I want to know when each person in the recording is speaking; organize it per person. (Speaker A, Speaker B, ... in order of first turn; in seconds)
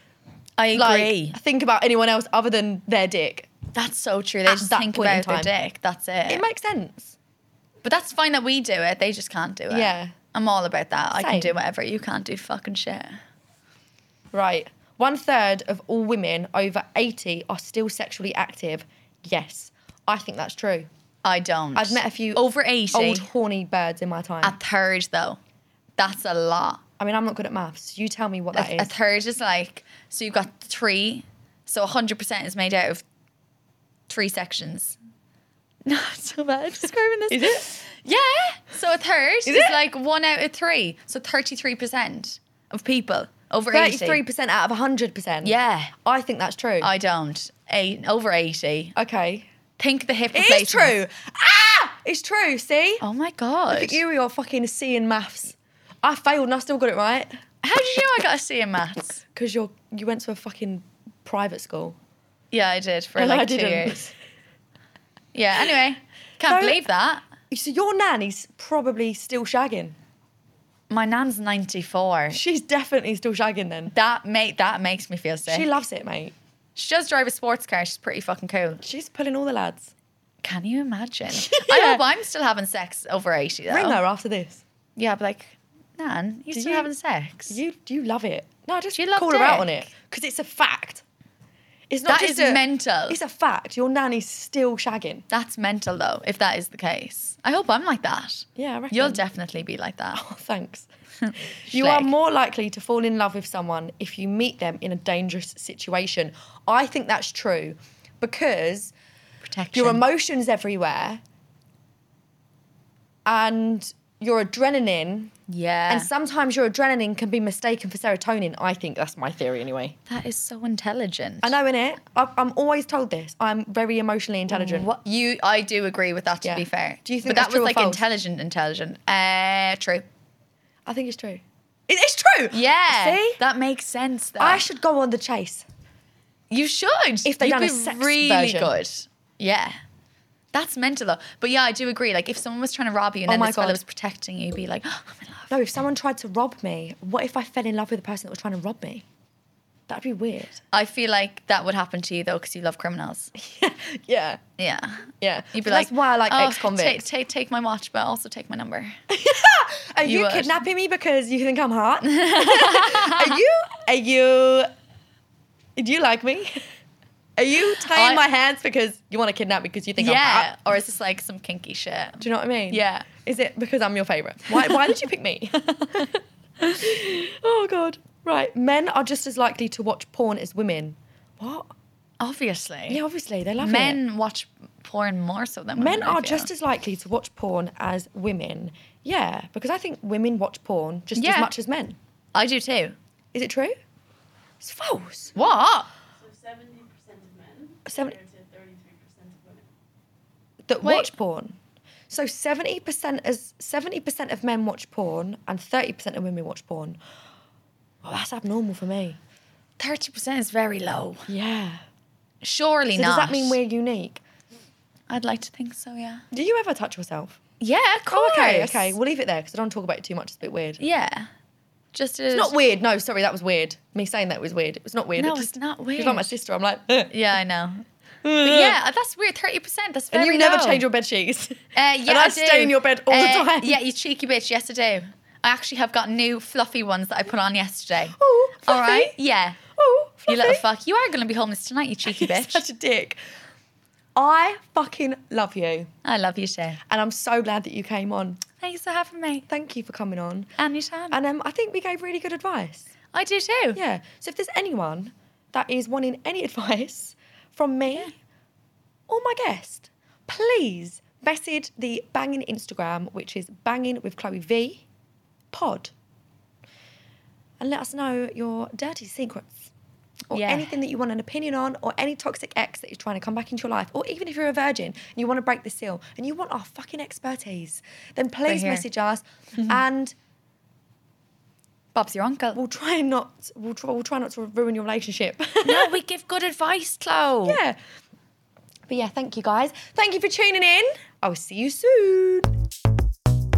Speaker A: 0.6-1.4, 3.7-6.5, 7.8-13.2, 21.2-23.2, 24.4-25.4, 26.0-26.8, 28.5-33.0, 34.1-35.0, 35.9-44.2, 45.4-45.9, 46.8-48.9, 49.8-50.9, 53.0-54.0, 57.6-59.2, 62.5-64.0, 65.3-67.2, 70.9-72.4, 73.9-75.7, 76.8-78.8, 80.4-84.0, 85.0-87.6, 88.9-89.9, 92.1-93.2, 95.3-100.2, 101.2-102.1, 109.4-110.0, 115.5-116.1, 120.1-121.5, 124.5-130.0, 132.5-134.6, 136.5-139.8, 140.5-145.5, 150.7-153.3, 154.6-159.0, 160.0-160.6, 162.0-163.4, 167.9-168.2, 170.0-173.1, 182.2-183.0, 183.6-186.5, 191.1-191.5, 192.3-192.9, 195.3-195.9, 200.8-201.1, 209.8-211.3, 212.4-213.6, 215.1-216.2, 217.6-218.9, 220.8-221.3, 221.9-222.5, 225.2-226.3, 227.1-227.8, 228.4-230.8, 231.7-239.6, 240.3-242.6, 246.0-246.8, 248.6-249.4, 250.6-251.2, 253.1-253.8, 270.3-270.7, 278.4-278.9, 281.9-282.6, 285.6-287.6
Speaker B: 0.7-3.5, 4.4-5.5, 6.3-7.2, 9.7-10.1, 11.1-11.6, 14.3-20.9, 21.7-24.6, 27.0-28.9, 37.3-37.6, 39.5-39.8, 43.7-46.9, 48.9-49.5, 50.3-53.0, 53.7-57.4, 59.3-62.0, 63.1-64.1, 66.4-66.8, 67.5-70.0, 72.3-73.9, 75.5-76.3, 78.8-79.9, 81.3-82.0, 83.7-84.6, 86.5-86.9, 87.5-91.0, 91.9-95.2, 98.5-99.2, 100.1-100.9, 101.7-108.9, 109.7-111.2, 113.2-115.3, 115.9-120.0, 121.4-124.9, 126.4-128.0, 130.8-133.4, 134.4-135.6, 137.2-138.7, 143.3-143.8, 145.5-149.0, 149.9-150.6, 153.3-154.4, 155.2-157.0, 159.1-164.7, 165.8-166.6, 167.4-170.5, 172.2-176.2, 176.8-181.7, 182.9-184.0, 185.8-192.0, 193.3-193.8, 194.6-195.3, 197.8-198.2, 200.7-201.6, 202.1-207.0, 208.0-209.2, 211.3-211.8, 212.9-214.2, 216.3-217.4, 218.1-220.8, 222.3-227.1, 228.2-228.8, 230.1-233.8, 238.2-239.2, 239.7-240.6, 242.1-243.2, 244.1-245.9, 246.9-248.4, 249.5-250.5, 251.1-252.9, 253.7-258.1, 259.1-264.8, 265.5-265.9, 267.6-269.7, 270.3-280.1, 282.5-286.0, 287.4-287.8, 288.9-292.5
Speaker C: 196.1-199.7